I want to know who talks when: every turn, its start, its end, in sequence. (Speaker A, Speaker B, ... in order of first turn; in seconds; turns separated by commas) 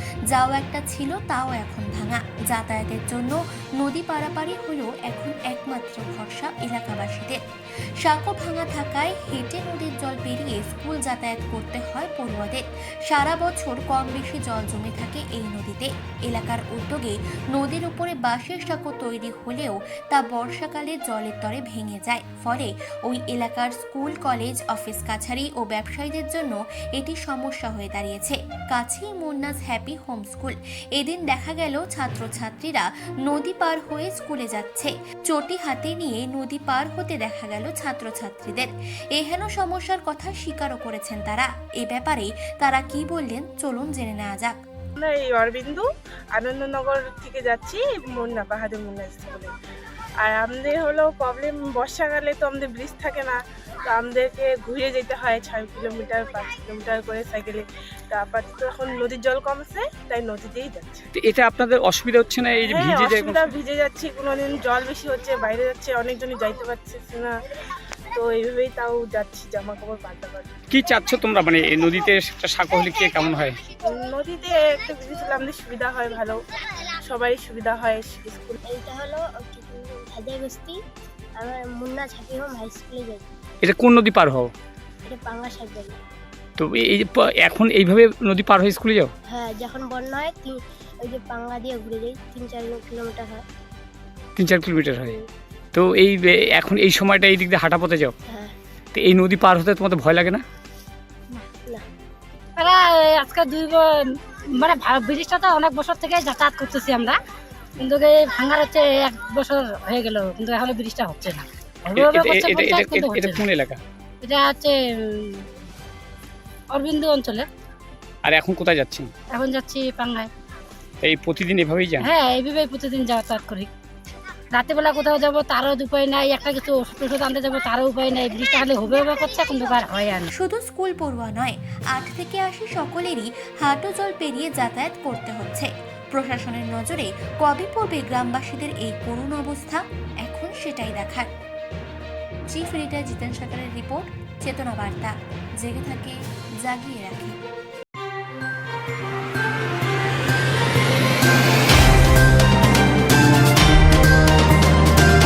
Speaker A: 0.3-7.4, Speaker A: 8.0-44.5, Speaker B: 45.0-45.8, Speaker B: 46.3-49.5, Speaker B: 50.2-61.0, Speaker C: 61.2-63.3, Speaker B: 62.6-67.3, Speaker B: 68.1-70.5, Speaker C: 70.7-73.5, Speaker B: 73.8-76.4, Speaker B: 77.0-78.6, Speaker D: 78.7-80.8, Speaker D: 81.4-83.3, Speaker C: 83.6-84.5, Speaker D: 85.0-86.0, Speaker C: 86.6-89.1, Speaker D: 89.3-93.4, Speaker C: 94.4-95.1, Speaker D: 95.0-95.2, Speaker C: 95.8-98.1, Speaker D: 98.3-98.5, Speaker C: 98.9-100.4, Speaker E: 102.6-103.9, Speaker E: 104.5-107.2, Speaker E: 107.8-113.4, Speaker C: 112.1-113.8, Speaker E: 114.2-115.5, Speaker E: 116.7-117.5, Speaker C: 118.3-119.1, Speaker E: 119.3-120.3, Speaker C: 121.0-122.0, Speaker E: 122.0-123.7, Speaker E: 124.5-130.3, Speaker A: 130.4-141.3, Speaker A: 142.5-147.4